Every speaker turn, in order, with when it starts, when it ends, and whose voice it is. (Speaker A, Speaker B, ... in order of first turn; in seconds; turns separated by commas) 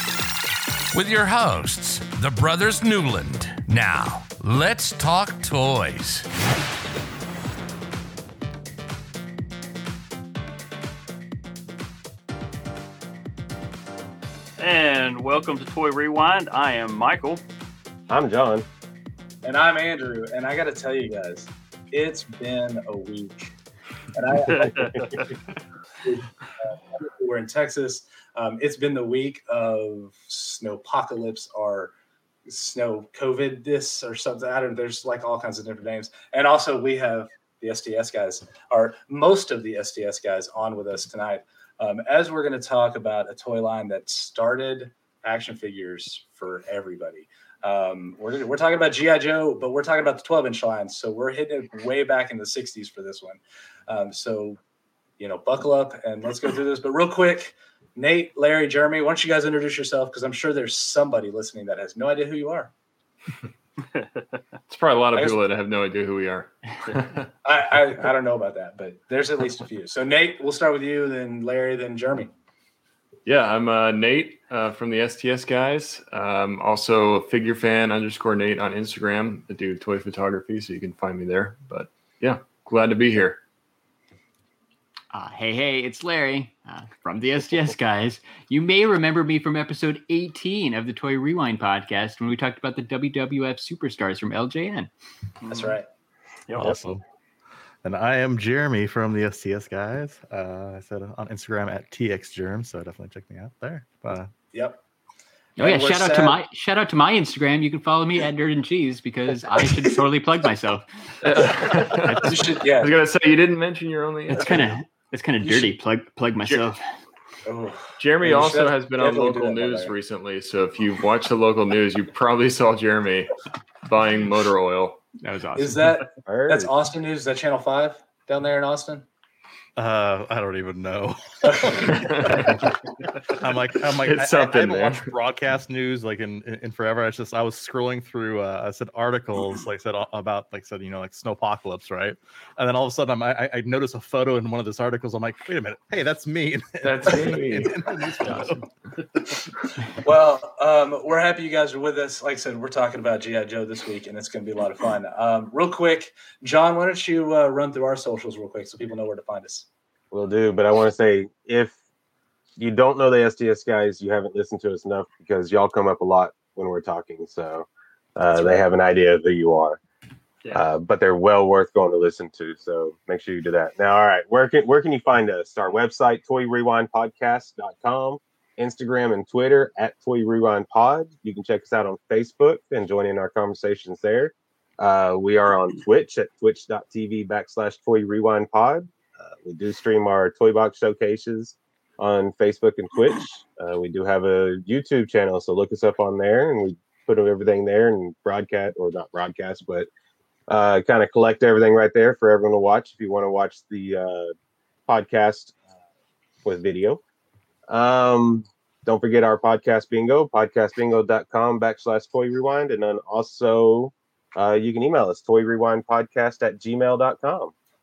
Speaker A: 0.9-6.3, Speaker B: 14.6-17.4, Speaker C: 18.1-18.7, Speaker D: 19.4-23.5, Speaker D: 24.1-25.1, Speaker B: 24.5-25.3, Speaker D: 26.0-31.9, Speaker D: 32.5-54.6, Speaker D: 55.2-62.7, Speaker B: 64.0-64.4, Speaker E: 64.7-67.3, Speaker D: 67.4-72.3, Speaker E: 73.3-83.4, Speaker F: 85.1-94.9, Speaker B: 95.4-95.8, Speaker D: 95.5-95.9, Speaker B: 96.5-96.8, Speaker G: 96.5-97.0, Speaker G: 97.8-104.3, Speaker D: 104.5-104.8, Speaker F: 105.6-110.9, Speaker D: 105.6-106.4, Speaker E: 111.2-114.8, Speaker F: 111.9-112.3, Speaker D: 112.2-112.9, Speaker F: 114.3-116.8, Speaker D: 115.4-115.7, Speaker D: 117.5-120.0, Speaker E: 118.0-123.3, Speaker E: 123.9-125.0, Speaker F: 125.2-125.9, Speaker D: 125.6-129.1, Speaker C: 126.3-126.7, Speaker G: 129.8-132.6, Speaker D: 131.5-131.8, Speaker E: 131.9-132.7, Speaker G: 133.3-148.7, Speaker E: 134.0-135.1, Speaker E: 146.8-148.6, Speaker D: 149.8-159.7, Speaker C: 160.1-161.8, Speaker C: 162.6-169.8, Speaker C: 170.5-199.9, Speaker C: 200.5-204.3, Speaker C: 204.9-205.5, Speaker C: 206.4-207.0, Speaker C: 207.7-217.5